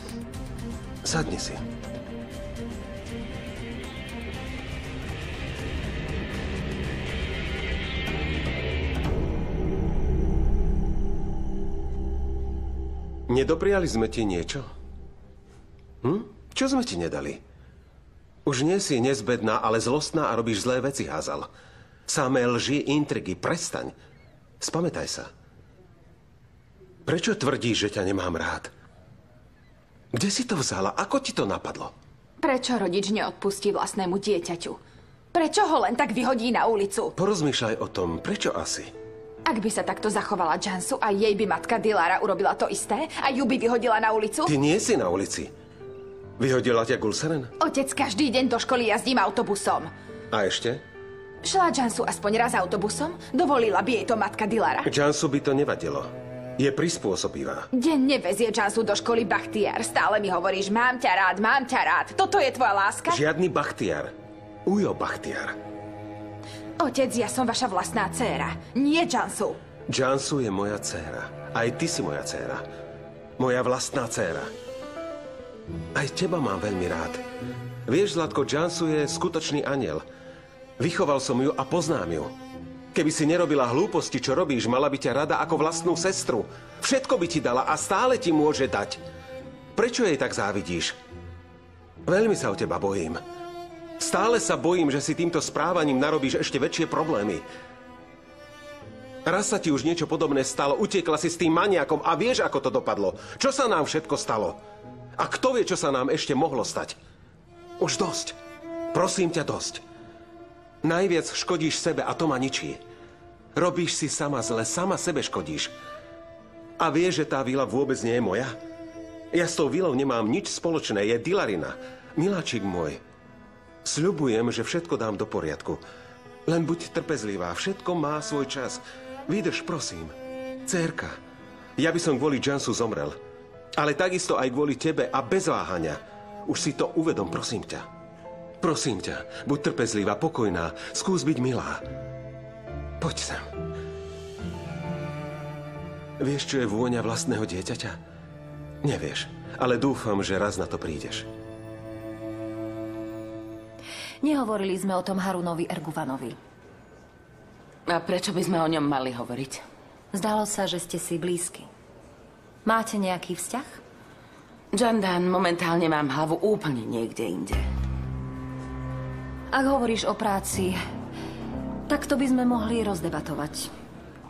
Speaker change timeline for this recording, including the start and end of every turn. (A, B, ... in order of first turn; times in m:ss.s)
0:01.0-0:01.6 A
0:13.3-0:14.7 A
0:16.0-0:17.4 A
0:18.5-0:21.5 A
0:22.1-0:24.0 A
0:24.6-0:25.3 A
0:27.1-0:28.7 A
0:30.1-0:31.9 A
0:32.4-0:34.8 B
0:35.3-0:37.1 B
0:37.2-0:38.9 A
0:39.5-0:44.6 B
0:44.4-0:45.5 A
0:46.4-0:47.5 A
0:47.6-0:49.9 B
0:50.3-0:50.8 A
0:51.4-0:54.9 B
0:54.8-0:57.7 A
0:57.7-1:03.2 B
1:03.1-1:04.1 A
1:04.7-1:05.6 A
1:06.8-1:09.6 B
1:09.9-1:12.6 A
1:13.4-1:14.5 A
1:16.0-1:17.2 A
1:17.9-1:20.0 A
1:20.8-1:22.3 A
1:22.9-1:29.0 A
1:29.8-1:31.0 A
1:32.1-1:33.2 A
1:34.0-1:37.4 A
1:39.2-1:44.6 A
1:45.2-1:47.0 A
1:47.8-1:48.4 A
1:48.9-1:49.8 A
1:50.8-1:52.8 A
1:53.6-1:55.8 A
1:56.8-1:58.6 A
1:59.3-2:03.0 A
2:03.8-2:05.8 A
2:06.5-2:10.2 A
2:10.7-2:11.2 A
2:11.8-2:13.2 A
2:13.8-2:17.9 A
2:18.6-2:21.8 A
2:23.0-2:23.4 A
2:26.2-2:28.0 A
2:28.8-2:31.3 A
2:34.2-2:36.4 C
2:37.9-2:39.6 D
2:40.1-2:41.7 C
2:42.7-2:43.8 C
2:44.7-2:47.6 D
2:49.5-2:50.8 C
2:51.9-2:53.7 C